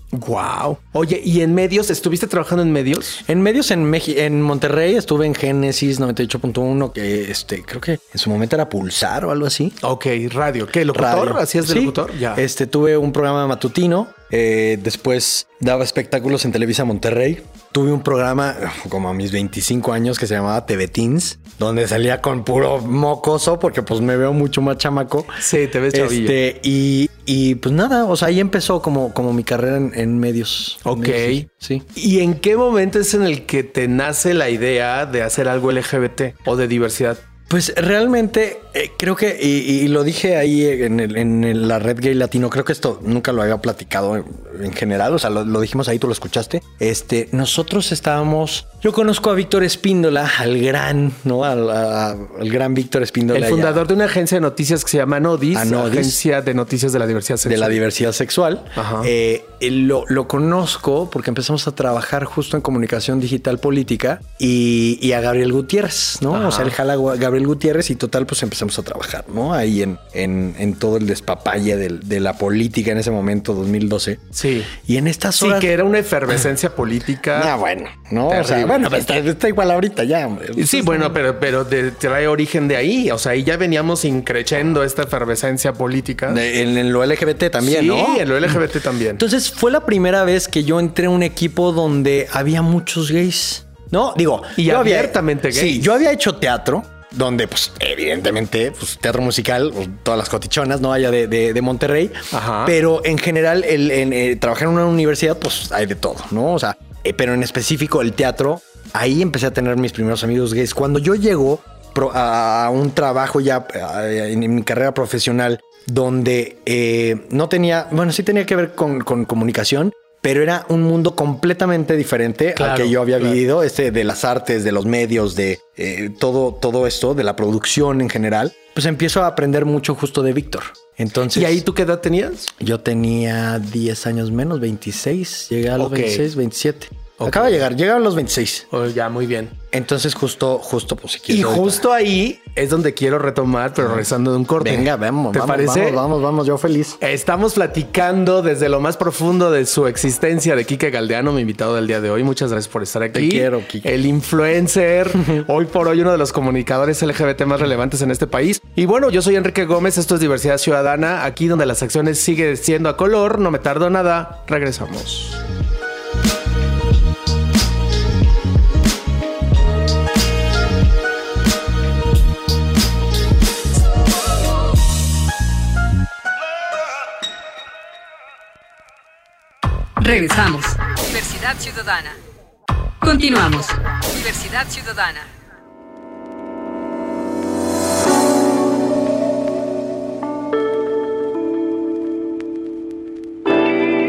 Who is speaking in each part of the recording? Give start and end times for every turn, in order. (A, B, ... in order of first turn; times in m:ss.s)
0:00.1-0:03.2 A
0:03.2-0:09.8 B
0:09.8-0:12.4 A
0:10.9-0:31.8 B
0:25.4-0:26.4 A
0:30.8-0:37.2 A
0:37.5-0:53.8 B
0:53.3-0:57.8 A
0:55.5-0:56.2 B
0:57.4-1:15.8 B
0:58.8-0:59.1 A
1:06.3-1:06.8 A
1:14.3-1:14.7 A
1:15.4-1:17.5 A
1:17.3-1:21.2 B
1:18.3-1:18.8 A
1:20.6-1:26.4 A
1:26.3-1:28.6 B
1:27.6-1:29.2 A
1:29.2-2:11.6 B
1:34.6-1:35.9 A
1:42.3-1:42.8 A
2:02.6-2:03.4 A
2:11.3-2:12.5 A
2:12.6-2:18.6 B
2:15.8-2:16.3 A
2:17.2-2:17.6 A
2:18.7-2:19.5 A
2:19.7-2:21.8 B
2:21.3-2:26.0 A
2:23.8-2:27.0 B
2:27.0-2:45.4 A
2:33.1-2:33.9 B
3:00.0-3:02.2 C
3:03.0-3:05.3 C